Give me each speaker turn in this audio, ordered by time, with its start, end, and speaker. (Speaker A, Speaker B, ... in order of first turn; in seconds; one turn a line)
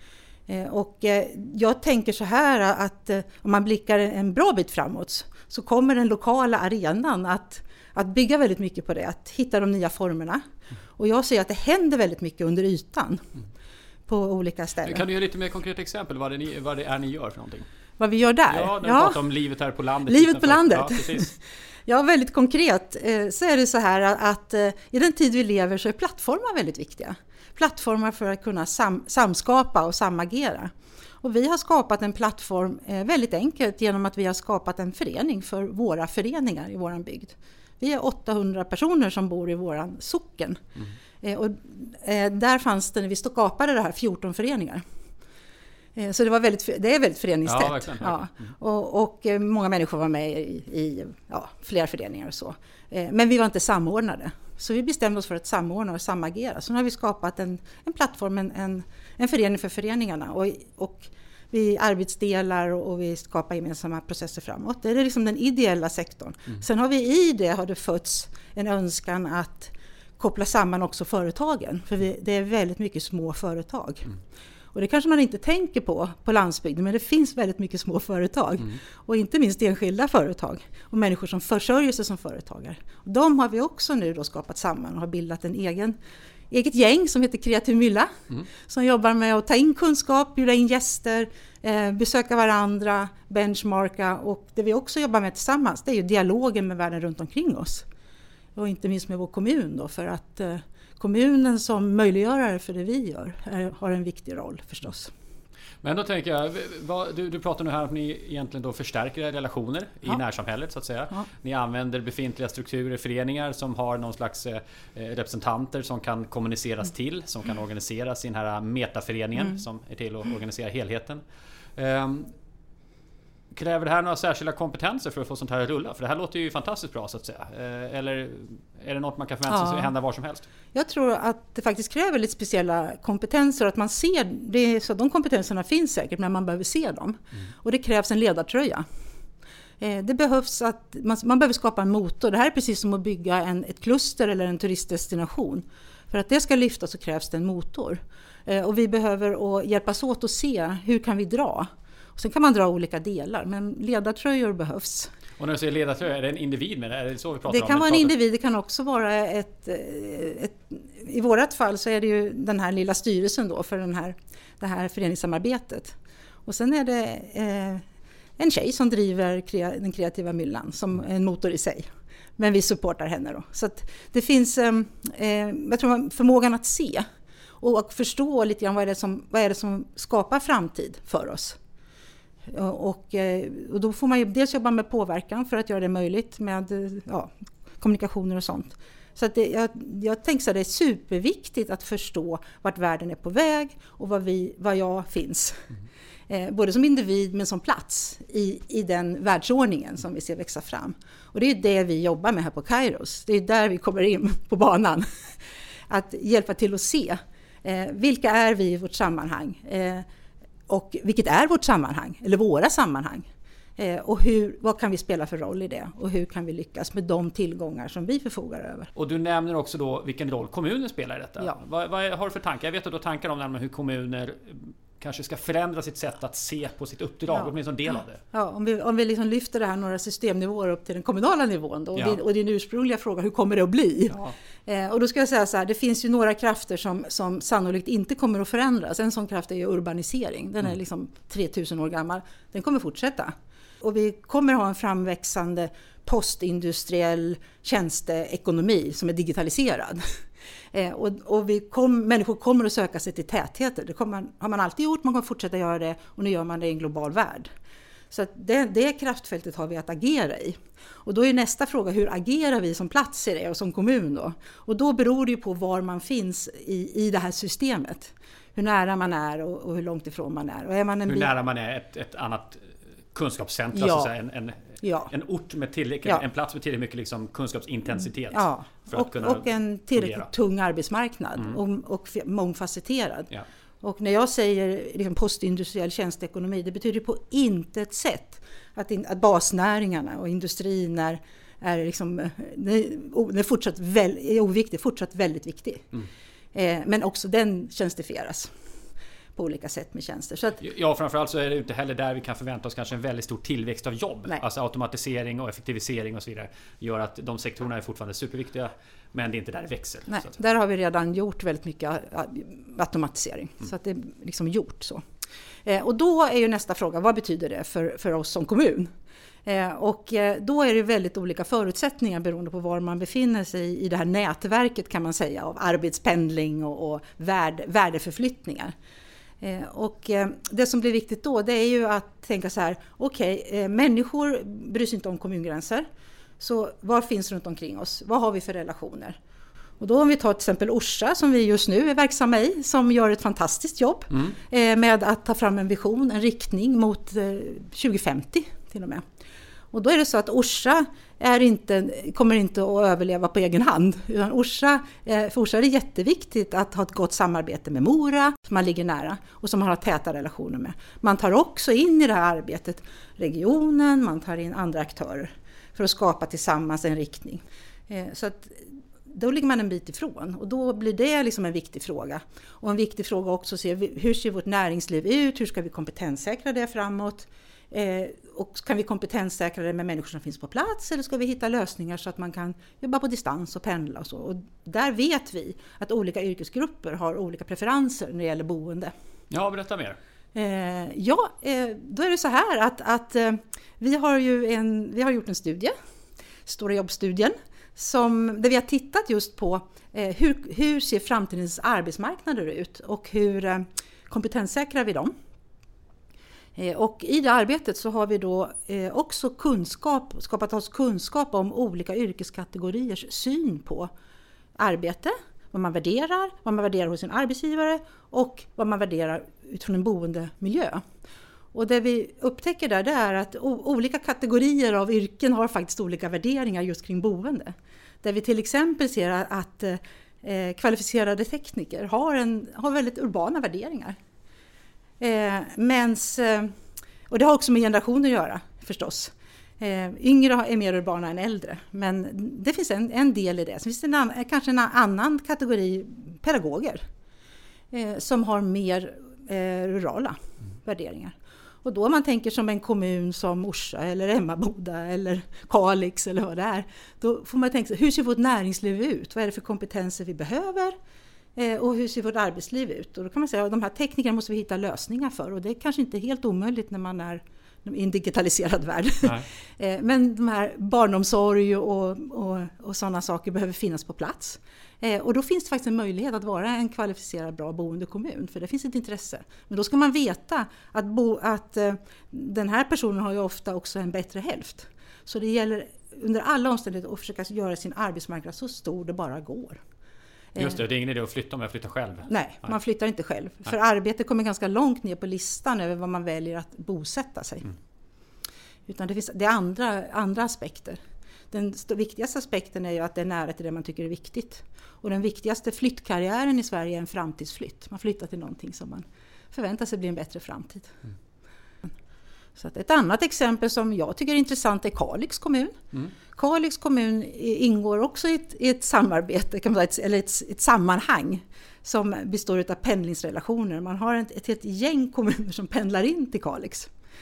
Speaker A: 0.5-10.4
Speaker A: 11.0-13.3
Speaker A: 14.1-15.1
Speaker B: 14.8-17.6
Speaker A: 18.0-19.2
Speaker B: 18.5-21.3
Speaker A: 20.1-40.6
Speaker A: 41.2-44.9
Speaker A: 46.0-74.1
Speaker B: 47.5-48.4
Speaker A: 74.7-86.0
Speaker A: 86.5-97.9
Speaker A: 98.6-105.1
Speaker B: 105.8-121.2
Speaker B: 121.8-122.3
Speaker B: 123.5-130.5
Speaker A: 129.5-129.9
Speaker A: 130.7-138.9
Speaker A: 139.8-155.1
Speaker B: 155.4-158.1
Speaker A: 157.5-167.8
Speaker A: 168.4-177.1
Speaker A: 177.6-181.6
Speaker A: 182.5-195.7
Speaker A: 196.3-210.1
Speaker A: 210.7-218.9
Speaker B: 219.0-228.2
Speaker A: 228.3-250.2
Speaker A: 250.7-257.5
Speaker A: 258.1-271.3
Speaker B: 271.1-280.3
Speaker A: 273.7-274.1
Speaker A: 274.8-275.1
Speaker A: 278.3-283.3
Speaker A: 283.8-295.9
Speaker A: 296.5-298.6
Speaker A: 299.4-300.6
Speaker B: 300.6-310.3
Speaker A: 310.1-315.0
Speaker A: 315.6-318.9
Speaker A: 319.5-328.8
Speaker A: 329.4-335.9
Speaker A: 336.4-339.2
Speaker A: 339.8-349.0
Speaker A: 349.7-388.9
Speaker B: 389.3-390.0
Speaker A: 390.4-395.8
Speaker A: 396.5-405.1
Speaker A: 406.6-413.9
Speaker A: 414.6-420.8
Speaker A: 421.5-434.0
Speaker A: 435.0-436.5
Speaker A: 437.1-446.9
Speaker A: 447.7-460.8
Speaker A: 461.4-489.6
Speaker B: 490.4-492.5
Speaker A: 492.1-497.5
Speaker A: 498.7-500.8
Speaker A: 501.3-510.8
Speaker A: 512.4-526.7